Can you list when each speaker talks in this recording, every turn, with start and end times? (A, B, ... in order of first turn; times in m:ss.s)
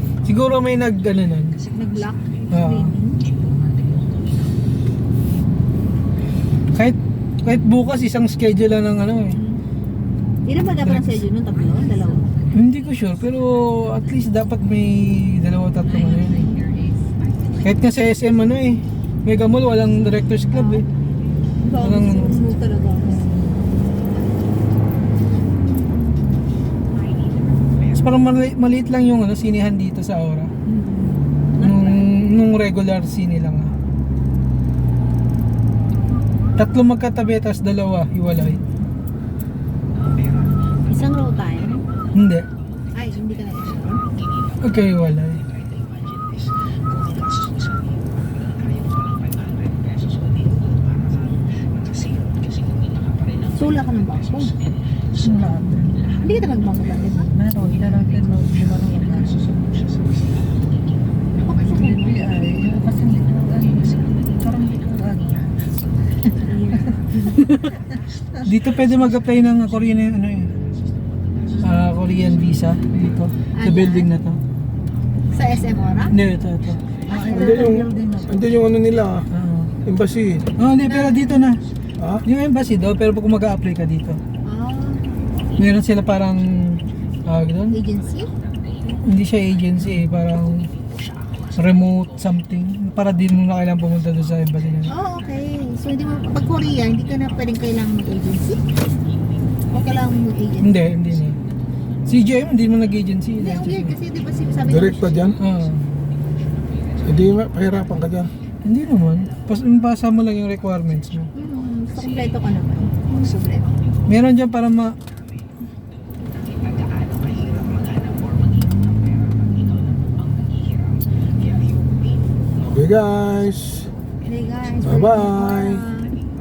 0:00.2-0:01.6 A
0:01.8-0:03.2 B
0:02.5-0:02.9 A
0:06.7-0:09.4 A
0:09.3-0:09.6 B
0:10.4-0:12.3 B
0:10.8-0:11.1 A
0:12.5-0:16.5 A
0:17.6-0:20.9 A
0:20.5-0:20.8 B
0:21.6-0:23.3 B
0:21.8-0:22.4 A
0:23.1-0:23.4 A
0:25.6-0:26.2 B
0:27.9-0:30.5 A
0:30.6-0:32.0 B
0:31.6-0:33.7 A
0:36.6-0:38.6 A
0:38.4-0:38.7 B
0:40.9-0:41.8 B
0:42.1-0:42.5 A
0:42.9-0:44.0 B
0:44.6-0:45.4 A
0:53.5-0:54.5 B
0:55.2-0:56.1 C
0:56.2-0:57.3 B
0:57.2-0:59.9 C
1:01.4-1:02.2 B
1:01.5-1:05.6 C
1:06.4-1:07.5 B
1:07.4-1:07.7 A
1:08.4-1:10.5 A
1:11.5-1:11.8 B
1:11.6-1:14.4 A
1:13.5-1:14.1 B
1:15.3-1:16.2 B
1:16.1-1:16.8 A
1:17.0-1:18.0 B
1:17.1-1:18.7 C
1:17.3-1:19.3 D
1:19.3-1:19.7 A
1:19.8-1:20.4 D
1:20.6-1:21.6 A
1:20.8-1:21.5 B
1:22.2-1:24.2 A
1:24.4-1:25.2 B
1:25.6-1:27.8 A
1:27.7-1:28.3 B
1:28.9-1:30.7 A
1:31.5-1:34.9 A
1:34.9-1:38.6 B
1:39.7-1:40.8 B
1:40.6-1:41.4 A
1:42.0-1:43.9 A
1:43.4-1:45.4 B
1:44.9-1:45.3 D
1:45.4-1:45.9 A
1:47.1-1:48.3 D
1:48.6-1:51.3 A
1:51.3-1:53.8 B
1:54.1-1:55.0 A
2:02.7-2:03.9 D
2:04.2-2:06.1 B
2:04.8-2:05.8 D